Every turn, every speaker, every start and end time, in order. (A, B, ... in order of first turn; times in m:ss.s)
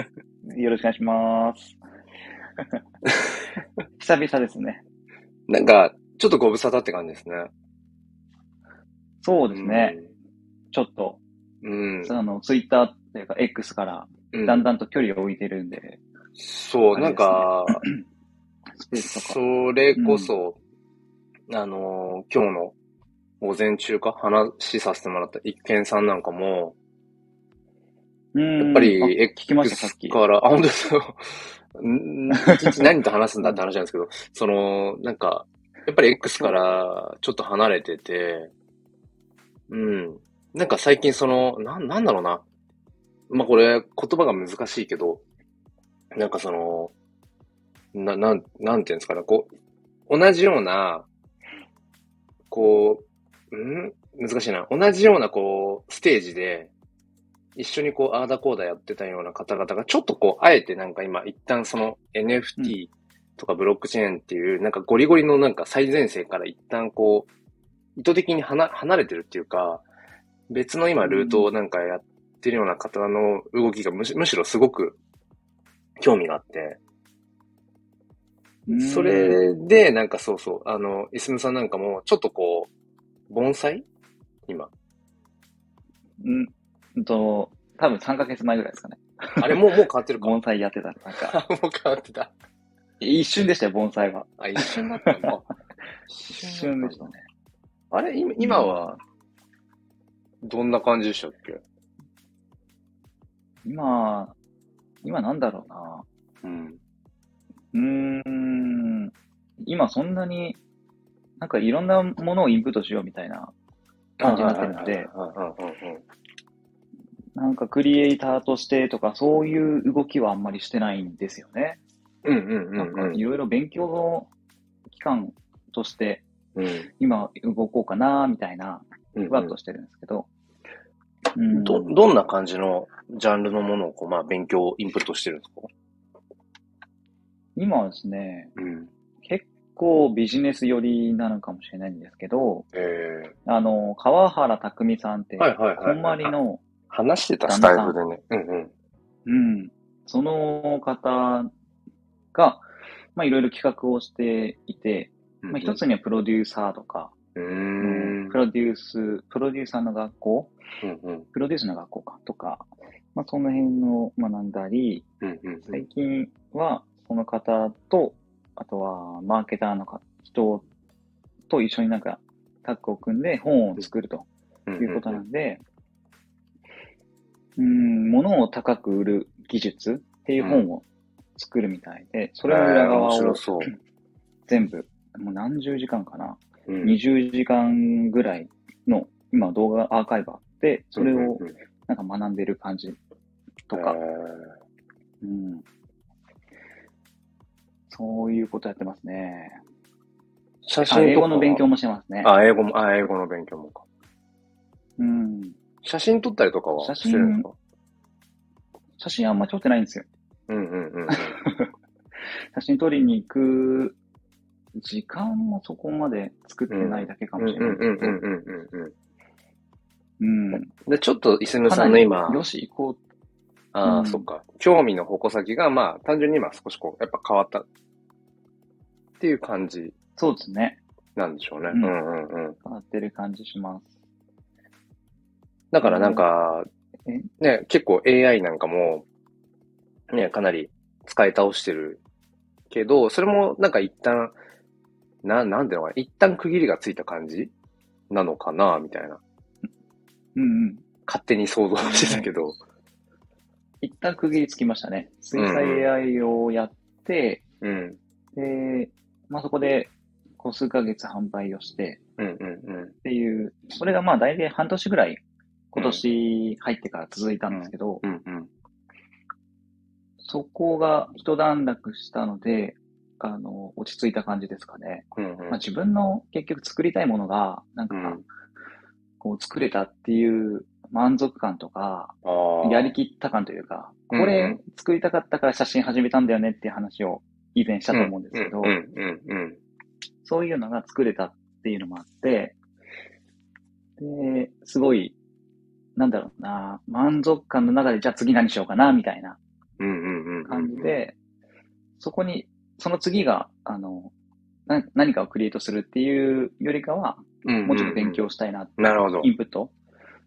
0:00.4-0:01.8 A
0:04.0-0:04.8 A
0:05.5-0:07.5 B
0:09.2-0:10.0 A
0:09.5-0:10.1 B
0:10.7-0:11.2 A
0:11.6-0:12.1 B
0:12.0-0:16.0 A
0:14.3-0:14.7 B
0:16.4-0:17.8 B
0:16.9-0:18.0 A
0:18.8-0:19.4 A
0:18.9-0:20.6 B
0:20.0-0:20.3 A
0:21.5-0:22.8 B
0:23.4-0:26.8 B
0:28.3-0:30.2 A
0:28.6-0:38.5 B
0:32.3-0:32.9 A
0:39.7-0:42.4 B
0:43.3-0:45.2 B
0:46.2-0:46.9 B
0:47.9-0:49.5 B
0:50.1-0:51.1 B
0:52.5-0:56.7 B
0:57.6-1:07.3 B
1:08.0-1:09.8 B
1:10.5-1:15.0 B
1:11.0-1:11.5 A
1:16.0-1:16.8 B
1:18.7-1:19.4 A
1:18.7-1:22.7 B
1:23.3-1:23.9 B
1:26.2-1:29.6 A
1:29.4-1:30.4 B
1:30.2-1:31.4 A
1:31.2-1:32.3 B
1:33.0-1:35.3 A
1:34.4-1:35.4 B
1:36.1-1:37.1 B
1:36.3-1:37.2 A
1:37.9-1:39.0 B
1:38.4-1:38.8 A
1:40.4-1:41.6 B
1:43.6-1:44.4 A
1:45.0-1:46.1 A
1:46.4-1:46.8 B
1:47.7-1:50.6 A
1:51.4-1:53.5 A
1:54.2-1:55.1 A
1:54.2-1:56.0 B
1:57.4-2:01.8 A
2:02.2-2:03.2 B
2:02.8-2:04.3 A
2:04.9-2:06.3 A
2:06.6-2:06.9 B
2:07.0-2:10.3 A
2:09.1-2:09.5 B
2:11.4-2:12.0 A
2:11.5-2:15.7 B
2:17.6-2:18.5 A
2:18.6-2:18.9 B
2:19.2-2:22.7 A
2:22.7-2:23.3 B
2:23.5-2:26.6 A
2:25.4-2:26.4 B
2:26.9-2:28.7 B
2:27.5-2:28.0 A
2:29.3-2:31.5 A
2:32.3-2:37.1 A
2:35.4-2:35.8 B
2:37.4-2:38.4 B
2:37.8-2:40.6 A
2:40.8-2:41.3 B
2:41.3-2:45.1 A
2:45.2-2:45.9 B
2:45.7-2:50.7 A
2:51.5-2:54.3 A
2:54.7-2:55.2 B
2:54.8-2:55.6 A
2:57.6-3:00.8 A
3:00.4-3:00.6 B
3:01.4-3:03.7 A
3:02.5-3:03.7 B
3:04.5-3:13.0 A
3:06.7-3:07.0 B
3:11.0-3:11.5 B
3:13.7-3:14.0 A
3:13.7-3:14.5 B
3:15.2-3:15.6 A
3:17.9-3:19.6 A
3:20.6-3:21.6 B
3:20.8-3:22.3 A
3:22.2-3:23.8 B
3:25.0-3:25.6 A
3:25.8-3:27.6 B
3:26.8-3:27.5 A
3:29.0-3:30.1 A
3:30.5-3:31.4 B
3:31.1-3:31.7 A
3:32.5-3:34.0 A
3:34.8-3:38.2 A
3:36.7-3:38.9 B
3:40.2-3:40.7 A
3:40.5-3:42.4 B
3:41.7-3:43.0 A
3:43.7-3:47.7 B
3:43.8-3:44.3 A
3:49.2-3:49.9 B
3:50.2-3:50.8 A
3:51.2-3:52.6 B
3:51.7-3:52.0 A
3:52.6-3:53.9 A
3:55.7-3:56.7 B
3:55.8-3:56.3 A
3:57.4-3:59.1 B
4:00.1-4:02.0 B
4:02.7-4:04.4 B
4:05.2-4:07.5 B
4:08.1-4:09.2 B
4:10.4-4:10.8 A
4:11.1-4:12.6 B
4:11.8-4:12.3 A
4:13.8-4:17.4 A
4:15.4-4:15.9 B
4:17.6-4:18.0 B
4:18.4-4:22.0 A
4:22.2-4:22.9 B
4:23.0-4:25.2 A
4:25.7-4:28.0 A
4:25.8-4:26.0 B
4:27.5-4:28.5 B
4:30.2-4:38.2 A
4:35.2-4:35.6 B
4:37.9-4:38.2 B
4:39.2-4:48.8 A
4:42.2-4:42.9 B
4:44.1-4:44.6 B
4:47.9-4:49.6 B
4:50.2-4:52.6 A
4:54.0-4:55.2 A
4:56.0-4:59.4 A
4:59.8-5:01.0 B
5:00.5-5:01.2 A
5:02.0-5:04.1 A
5:04.7-5:09.7 A
5:07.4-5:08.2 B
5:08.8-5:09.3 B